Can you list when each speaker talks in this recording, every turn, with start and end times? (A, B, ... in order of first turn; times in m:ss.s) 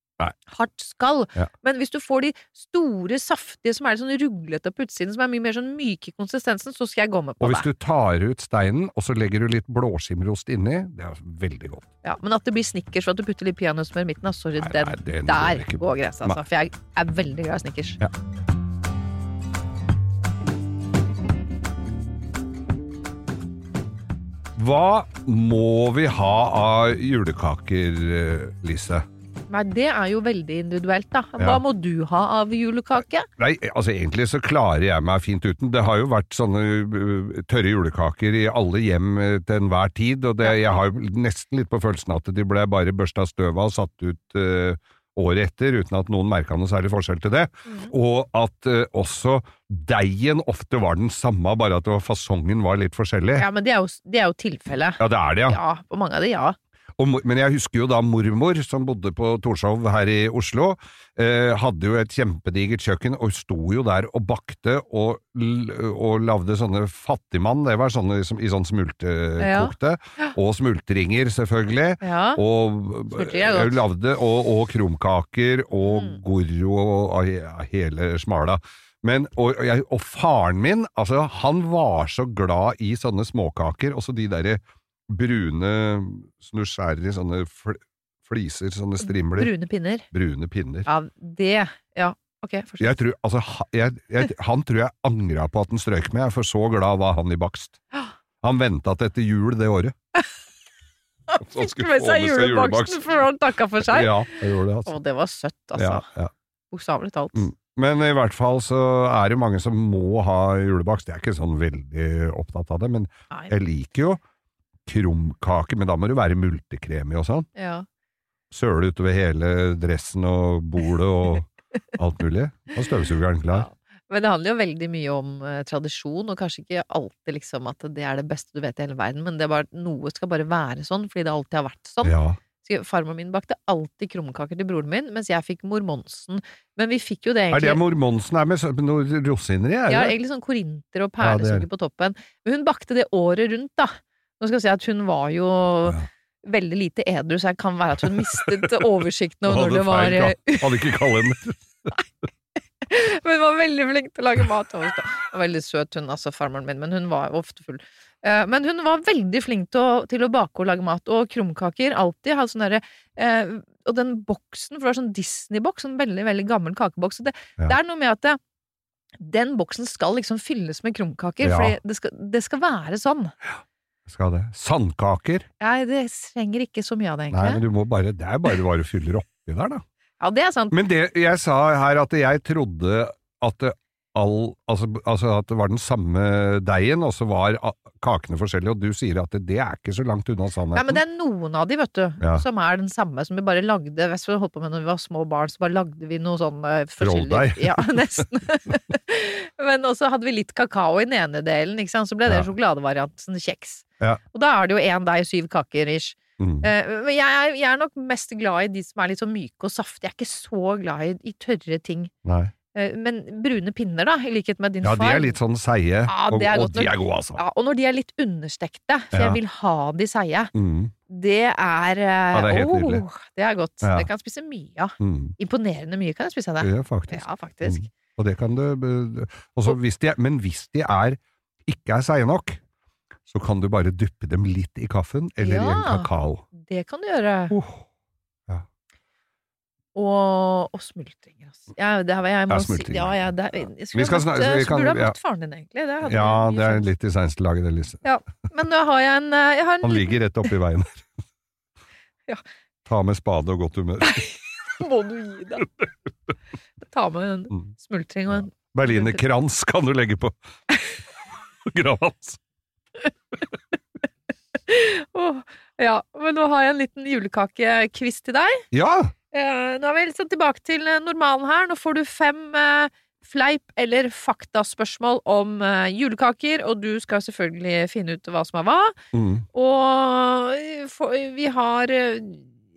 0:00.5-0:07.7 A
0:07.4-0:11.9 B
0:12.0-0:18.0 A
0:14.6-0:16.4 B
0:24.6-0:29.1 B
0:29.5-0:33.3 A
0:33.4-0:53.5 B
0:47.7-0:47.9 A
0:53.4-0:56.6 A
0:55.0-0:55.6 B
0:57.0-1:29.5 B
1:09.4-1:10.3 A
1:12.0-1:12.4 A
1:13.1-1:13.8 A
1:15.8-1:16.2 A
1:29.0-1:30.1 A
1:30.1-1:30.9 B
1:30.9-1:33.0 A
1:32.8-1:37.8 B
1:38.4-1:39.9 B
1:41.3-1:46.1 A
1:41.4-1:43.2 B
1:43.8-1:44.9 B
1:45.8-1:46.3 B
1:46.7-1:47.5 A
1:47.3-1:54.2 B
1:54.9-1:57.5 B
1:57.6-1:57.9 A
1:58.5-2:03.7 B
2:03.5-2:17.8 A
2:12.0-2:12.4 B
2:17.5-2:20.2 B
2:19.9-2:30.7 A
2:21.2-2:21.7 B
2:28.3-2:28.7 B
2:29.5-2:31.9 B
2:32.8-2:48.4 A
2:49.2-2:53.3 A
2:51.4-2:51.8 B
2:54.1-2:55.5 B
2:55.6-2:57.6 A
2:57.3-2:59.8 B
3:00.2-3:00.8 A
3:00.7-3:11.0 B
3:10.7-3:32.1 A
3:17.0-3:18.3 B
3:26.4-3:26.7 B
3:32.2-3:32.5 B
3:32.7-3:35.4 A
3:34.8-3:37.4 B
3:36.1-3:40.5 A
3:39.1-3:39.4 B
3:40.5-3:40.9 B
3:41.1-3:47.9 A
3:42.3-3:43.0 B
3:43.8-3:44.1 B
3:45.0-3:45.4 B
3:46.6-3:52.6 B
3:53.3-3:56.4 B
3:55.4-3:57.6 A
3:57.5-3:57.8 B
4:00.0-4:06.9 A
4:02.5-4:03.3 B
4:03.9-4:05.2 B
4:06.0-4:08.0 B
4:08.0-4:10.2 A
4:09.8-4:11.1 B
4:12.9-4:14.2 B
4:14.1-4:15.7 A
4:16.9-4:19.2 A
4:18.3-4:20.4 B
4:21.6-4:22.4 B
4:24.7-4:28.6 A
4:28.7-4:29.1 B
4:29.3-4:39.0 A
4:39.1-4:39.5 B
4:39.5-4:42.5 A